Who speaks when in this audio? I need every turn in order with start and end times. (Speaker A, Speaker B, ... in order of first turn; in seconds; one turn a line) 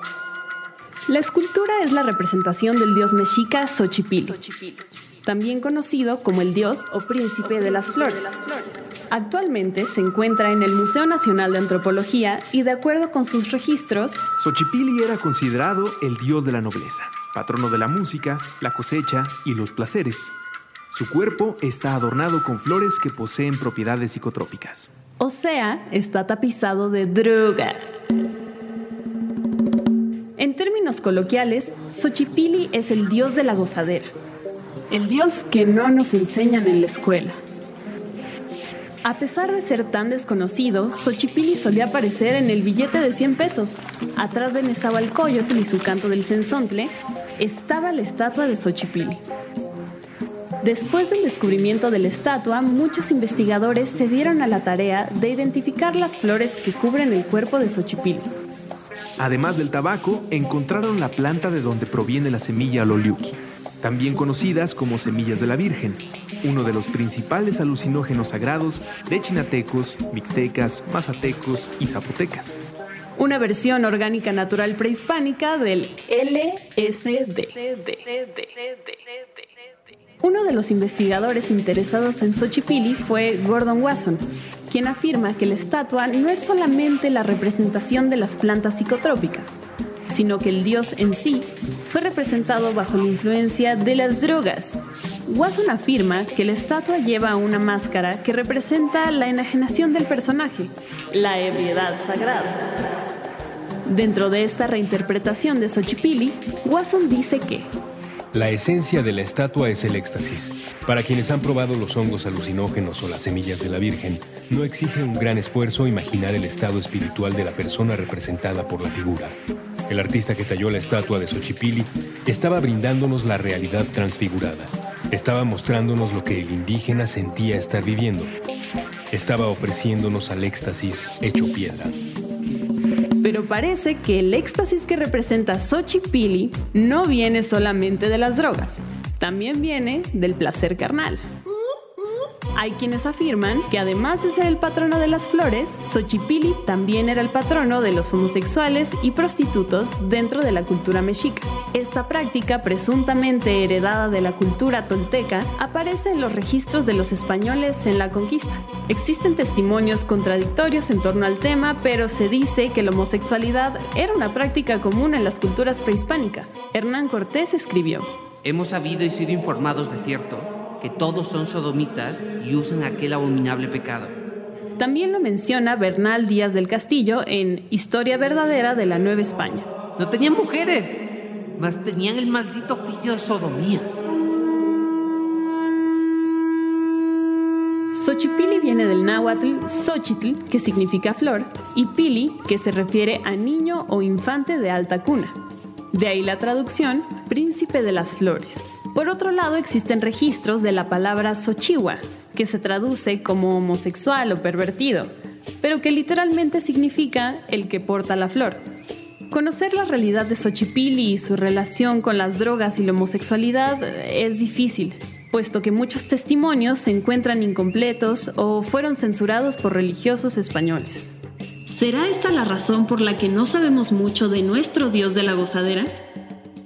Speaker A: 1.1-14.3
Speaker B: 14.4-20.3
Speaker B: 20.9-24.9
Speaker A: 25.2-28.0
Speaker A: 30.4-34.1
Speaker A: 34.9-37.4
Speaker A: 39.0-49.2
Speaker A: 50.6-58.3
Speaker B: 59.2-72.6
Speaker A: 73.2-79.0
Speaker A: 80.2-89.6
Speaker A: 90.1-102.6
Speaker A: 103.9-107.7
Speaker C: 108.3-119.4
Speaker C: 119.9-128.3
Speaker C: 129.1-131.9
Speaker A: 133.2-141.2
Speaker A: 142.5-168.1
Speaker D: 168.4-174.1
Speaker A: 174.8-179.7
Speaker D: 180.0-180.9
Speaker D: 181.6-183.9
Speaker A: 187.9-195.4
Speaker A: 195.9-208.6
Speaker A: 209.3-221.1
Speaker A: 221.7-225.9